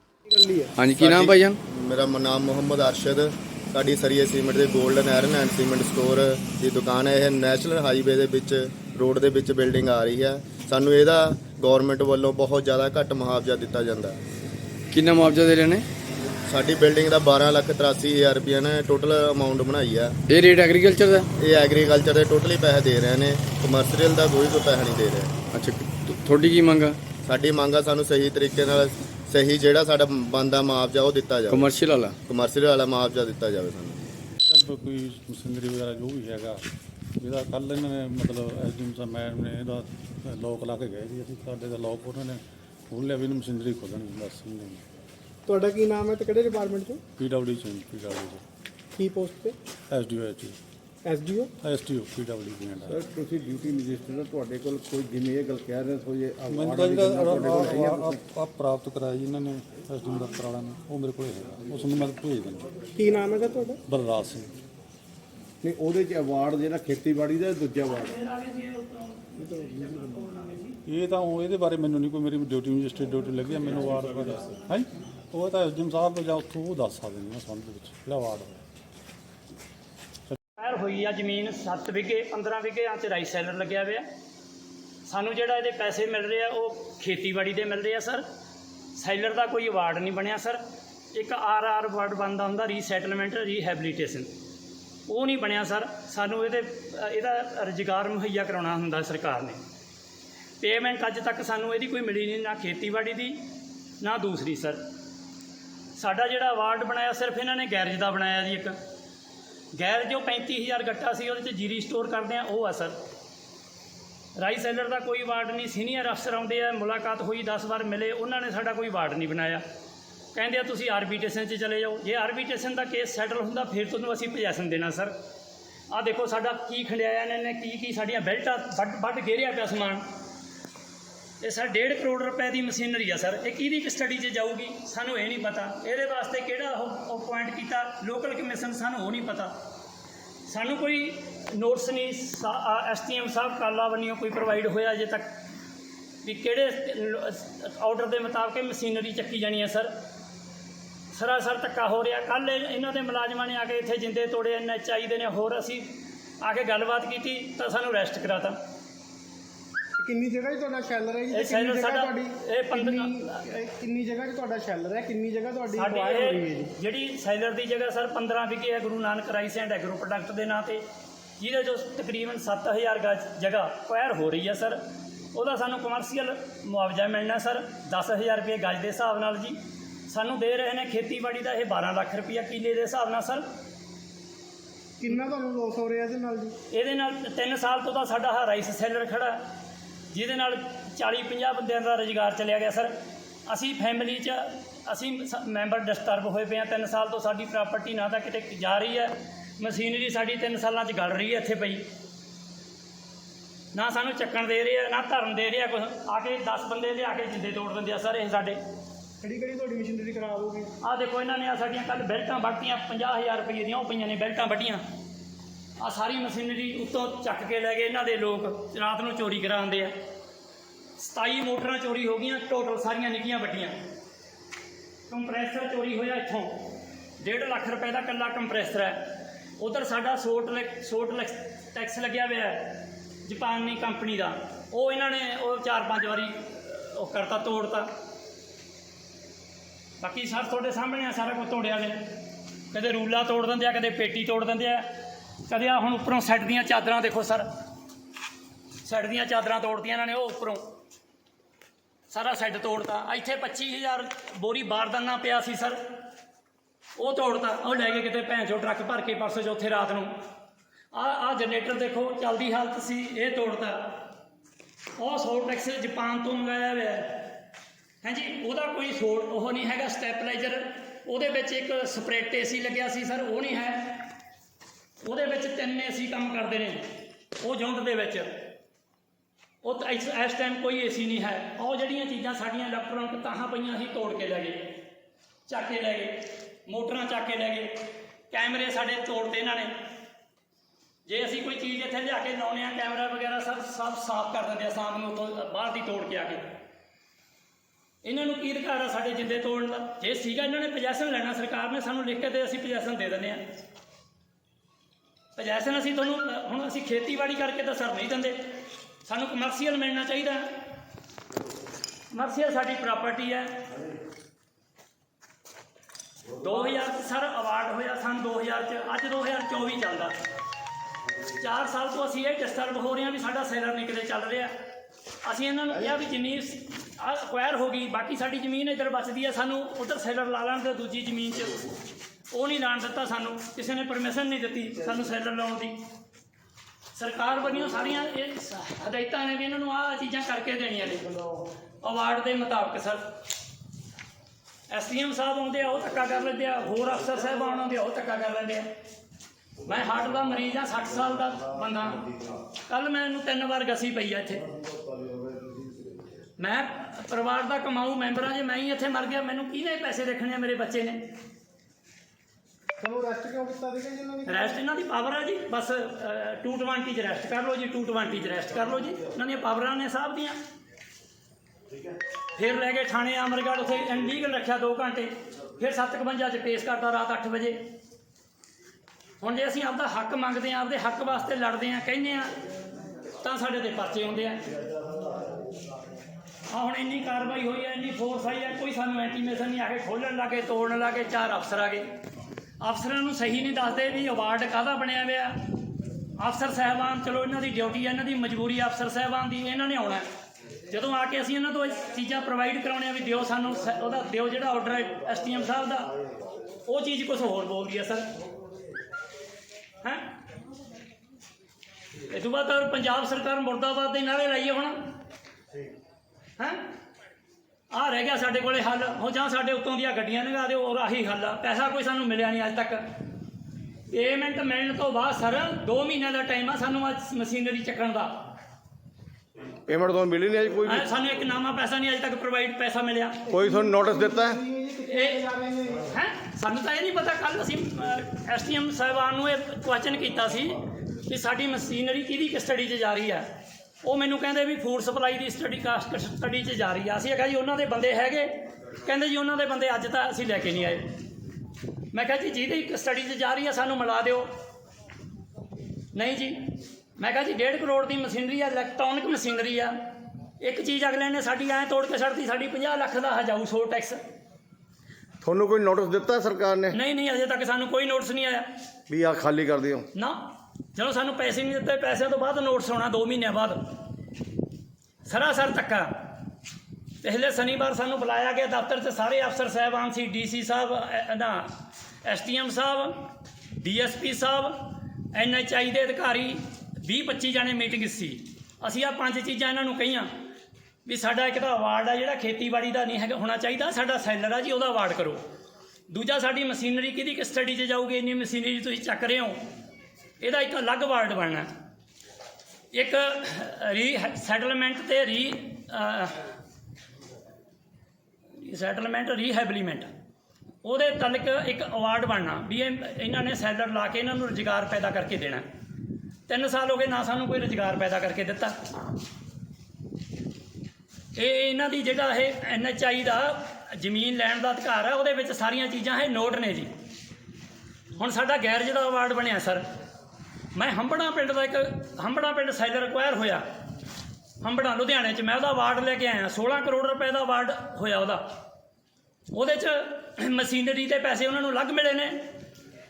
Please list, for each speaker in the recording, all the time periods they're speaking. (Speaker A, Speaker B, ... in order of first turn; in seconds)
Speaker A: 0.2-0.7, 45.5-47.0, 48.9-49.5, 51.0-51.5, 63.0-63.8, 160.0-166.7, 185.0-186.5, 209.2-210.7, 362.8-364.5, 433.3-435.9
Speaker B: 0.8-1.6, 14.9-15.8, 20.3-21.3, 25.5-27.0, 31.5-32.1
Speaker C: 1.0-14.2, 16.5-20.1, 21.4-25.3, 27.2-34.0
Speaker D: 34.5-36.6, 37.2-44.8, 47.2-48.4, 49.9-50.6, 51.6-53.0, 56.5-62.7, 63.9-64.5, 70.9-78.6
Speaker E: 52.9-58.2, 65.6-68.1, 354.9-355.9, 429.7-430.8, 433.3-434.4, 465.2-466.7, 468.9-469.8
Speaker F: 68.0-70.8, 80.6-84.0, 85.1-88.2, 88.9-90.6, 91.1-94.3, 95.1-99.6, 100.6-103.5, 104.0-104.8, 106.0-108.8, 109.7-113.0, 114.4-119.6, 120.3-125.1, 125.9-130.1, 131.4-139.6, 140.5-145.4, 146.2-149.9, 151.1-158.6, 161.3-163.2, 165.7-170.8, 171.4-174.8, 175.3-183.4, 186.7-189.5, 190.1-192.9, 193.4-201.8, 203.7-208.6, 210.8-214.8, 215.8-220.0, 221.0-223.8, 225.1-237.9, 240.0-247.5, 248.8-250.7, 252.1-255.8, 256.9-260.2, 260.9-264.1, 264.9-267.4, 268.0-274.1, 275.0-278.5, 279.6-284.8, 285.5-289.7, 291.1-296.6, 298.0-303.5, 305.4-310.6, 312.1-313.7, 316.4-320.1, 321.4-324.5, 325.2-331.7, 332.3-335.8, 336.9-341.1, 341.8-343.2, 344.7-348.7, 349.6-352.1, 352.6-354.4, 356.4-361.1, 364.3-370.4, 372.4-377.7, 379.2-382.4, 383.2-384.4, 386.5-391.9, 392.6-395.4, 396.2-400.1, 400.7-405.9, 406.6-408.1, 409.8-410.2, 412.0-414.8, 416.4-416.7, 417.7-422.8, 423.9-428.2, 430.6-433.2, 434.9-435.2, 435.9-443.3, 443.8-450.9, 451.9-454.3, 455.9-459.8, 460.4-464.0, 466.7-468.5, 469.9-473.6, 475.0-476.1, 477.0-490.1, 490.8-495.2, 495.9-499.4, 500.2-501.5, 502.7-506.3, 508.4-509.9, 510.6-515.5, 516.3-518.6, 521.1-526.7, 527.9-529.6, 530.5-533.5, 534.4-538.3, 539.3-542.3